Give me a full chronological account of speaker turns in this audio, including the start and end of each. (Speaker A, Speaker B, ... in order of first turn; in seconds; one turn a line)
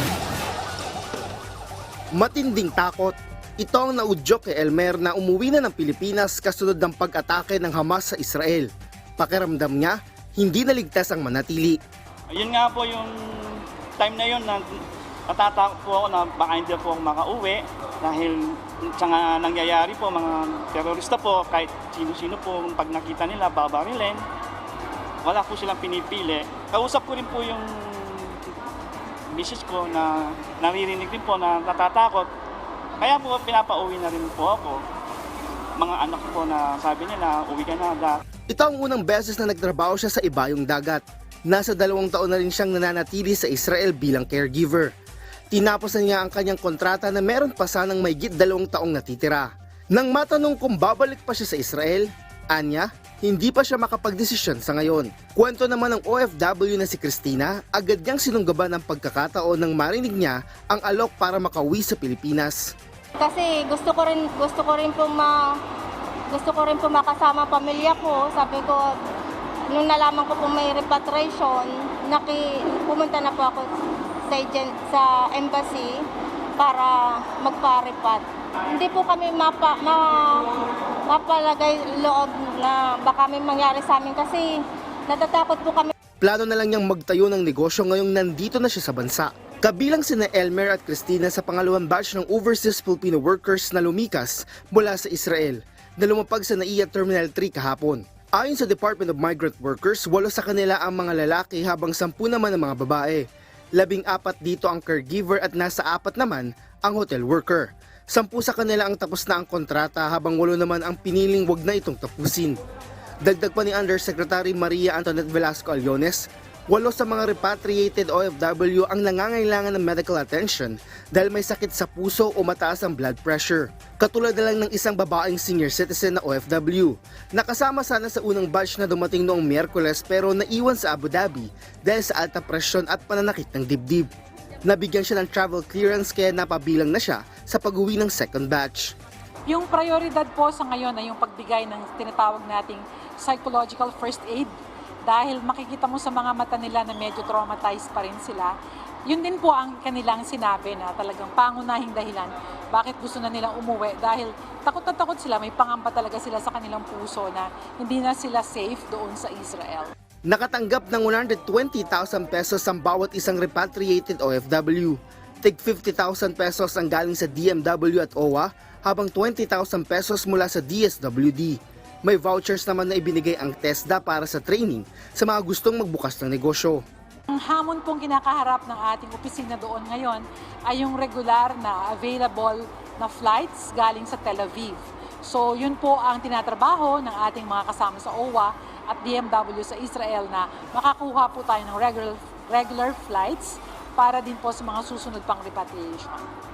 Speaker A: 2.1-11.8
Speaker B: 12.3-14.7
Speaker B: 15.3-24.2
Speaker B: 25.2-28.6
Speaker B: 29.3-32.3
Speaker B: 33.0-34.8
Speaker B: 35.8-38.2
Speaker A: 38.5-44.9
Speaker A: 45.5-62.6
Speaker C: 63.2-65.4
Speaker C: 66.3-68.9
Speaker C: 69.7-73.7
Speaker C: 74.3-76.0
Speaker C: 76.6-84.5
Speaker C: 85.1-85.9
Speaker A: 86.2-103.2
Speaker A: 103.8-112.6
Speaker A: 113.2-134.1
Speaker A: 134.7-138.9
Speaker D: 139.5-144.5
Speaker D: 145.1-148.5
Speaker D: 149.1-159.9
Speaker A: 160.3-176.8
Speaker D: 177.3-196.3